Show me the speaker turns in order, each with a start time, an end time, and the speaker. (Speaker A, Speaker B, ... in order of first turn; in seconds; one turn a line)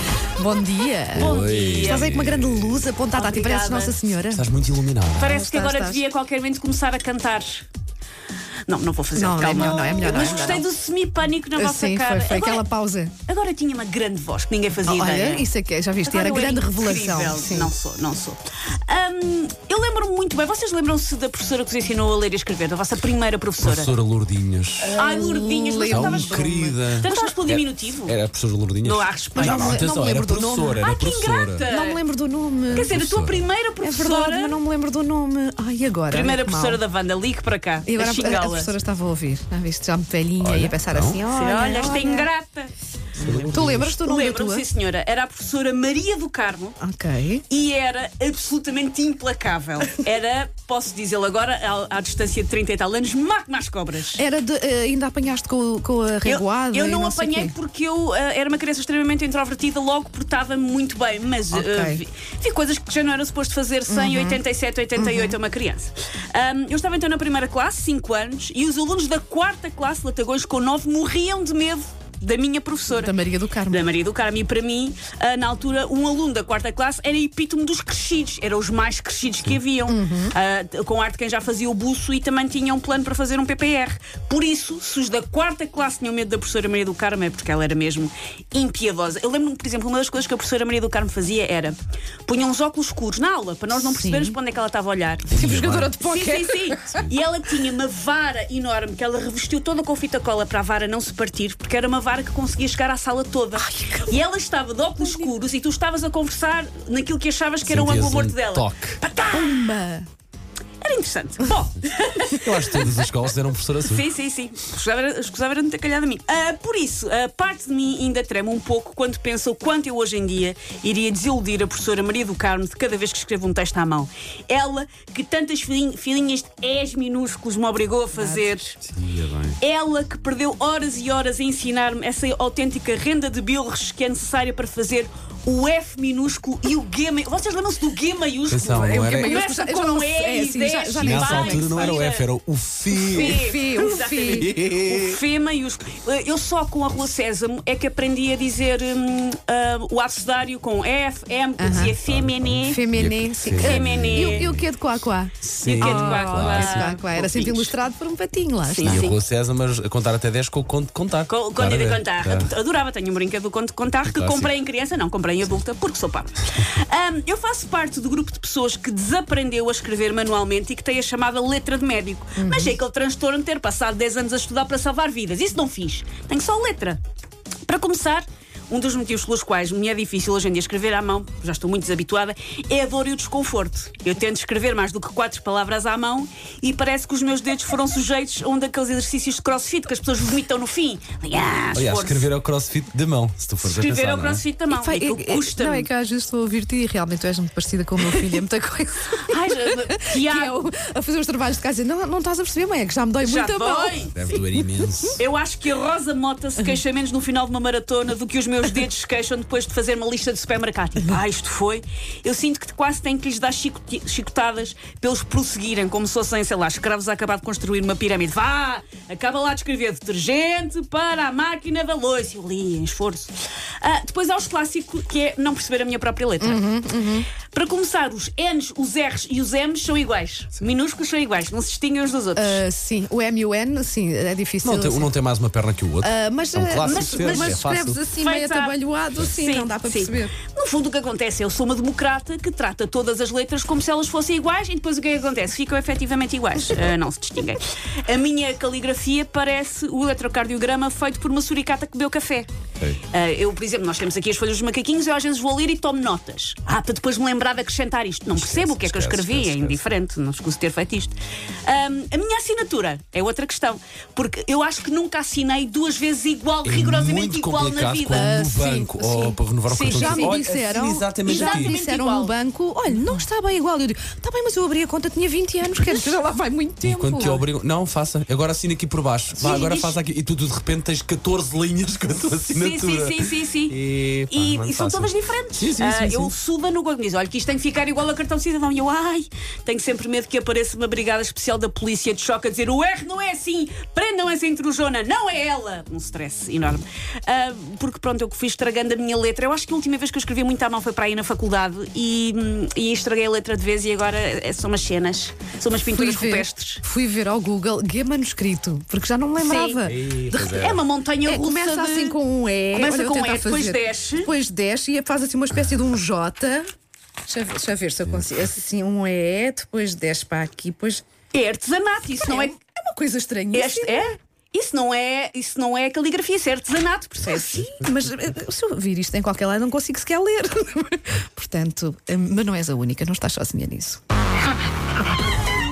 Speaker A: 0.4-1.3
Speaker B: 1.1-2.9
Speaker C: 1.2-2.1
Speaker A: 1.9-4.5
Speaker C: 3.1-4.0
Speaker B: 4.3-5.3
Speaker C: 5.2-7.7
Speaker A: 5.2-6.0
Speaker C: 8.7-12.6
Speaker A: 9.1-10.7
Speaker A: 11.6-13.1
Speaker C: 13.3-15.5
Speaker A: 14.8-17.7
Speaker C: 16.1-23.9
Speaker B: 23.6-25.1
Speaker A: 24.8-27.3
Speaker C: 24.9-28.1
Speaker B: 25.9-31.7
Speaker C: 28.8-29.9
Speaker A: 29.4-30.9
Speaker C: 30.8-32.0
Speaker A: 31.6-32.9
Speaker C: 32.7-34.6
Speaker B: 32.7-33.5
Speaker A: 33.8-36.8
Speaker C: 36.1-38.7
Speaker A: 37.9-42.3
Speaker B: 40.4-41.2
Speaker C: 41.2-46.8
Speaker B: 43.2-44.0
Speaker A: 43.2-44.6
Speaker A: 46.8-47.4
Speaker C: 47.5-54.2
Speaker A: 54.1-57.5
Speaker C: 56.2-73.2
Speaker A: 61.5-62.0
Speaker A: 63.9-64.4
Speaker A: 65.0-65.3
Speaker A: 72.9-73.9
Speaker C: 73.7-109.7
Speaker A: 79.9-80.3
Speaker A: 93.7-94.4
Speaker B: 95.3-96.0
Speaker A: 95.3-97.0
Speaker B: 96.9-97.2
Speaker A: 103.6-104.2
Speaker A: 105.0-105.3
Speaker B: 107.7-109.0
Speaker A: 109.3-110.1
Speaker C: 110.8-112.9
Speaker B: 112.3-114.0
Speaker C: 113.8-128.8
Speaker A: 128.1-128.6
Speaker B: 128.8-129.6
Speaker C: 129.6-142.2
Speaker B: 138.5-139.4
Speaker A: 138.8-142.0
Speaker B: 141.0-145.2
Speaker A: 143.0-144.5
Speaker C: 143.1-152.9
Speaker A: 151.6-152.0
Speaker B: 151.7-154.7
Speaker A: 152.7-159.1
Speaker C: 153.6-154.5
Speaker B: 155.4-156.9
Speaker C: 155.6-157.7
Speaker C: 158.6-159.2
Speaker B: 158.8-162.5
Speaker C: 161.3-177.0
Speaker B: 164.0-164.5
Speaker A: 172.4-172.8
Speaker C: 177.7-192.3
Speaker B: 191.8-194.4
Speaker C: 193.6-195.9
Speaker A: 194.7-205.1
Speaker C: 199.2-200.6
Speaker C: 203.2-204.1
Speaker B: 204.1-205.2
Speaker C: 205.2-226.7
Speaker A: 226.4-227.3
Speaker C: 227.5-232.6
Speaker A: 232.4-235.1
Speaker B: 234.6-238.0
Speaker A: 236.0-240.3
Speaker C: 236.8-237.6
Speaker C: 238.2-252.5
Speaker C: 253.0-261.1
Speaker B: 258.3-259.9
Speaker C: 261.7-268.4
Speaker B: 266.6-271.8
Speaker A: 268.1-277.4
Speaker C: 269.7-270.4
Speaker C: 271.2-272.3
Speaker C: 272.9-273.2
Speaker B: 276.8-286.3
Speaker C: 279.4-280.0
Speaker C: 282.5-283.8
Speaker C: 284.3-306.8
Speaker A: 305.9-310.7
Speaker C: 309.4-309.8
Speaker B: 309.9-310.8
Speaker C: 310.5-312.2
Speaker A: 311.2-316.7
Speaker C: 312.7-314.3
Speaker A: 317.3-321.0
Speaker B: 318.1-318.5
Speaker C: 321.3-322.5
Speaker A: 322.2-324.0
Speaker C: 323.5-327.7
Speaker A: 327.2-334.0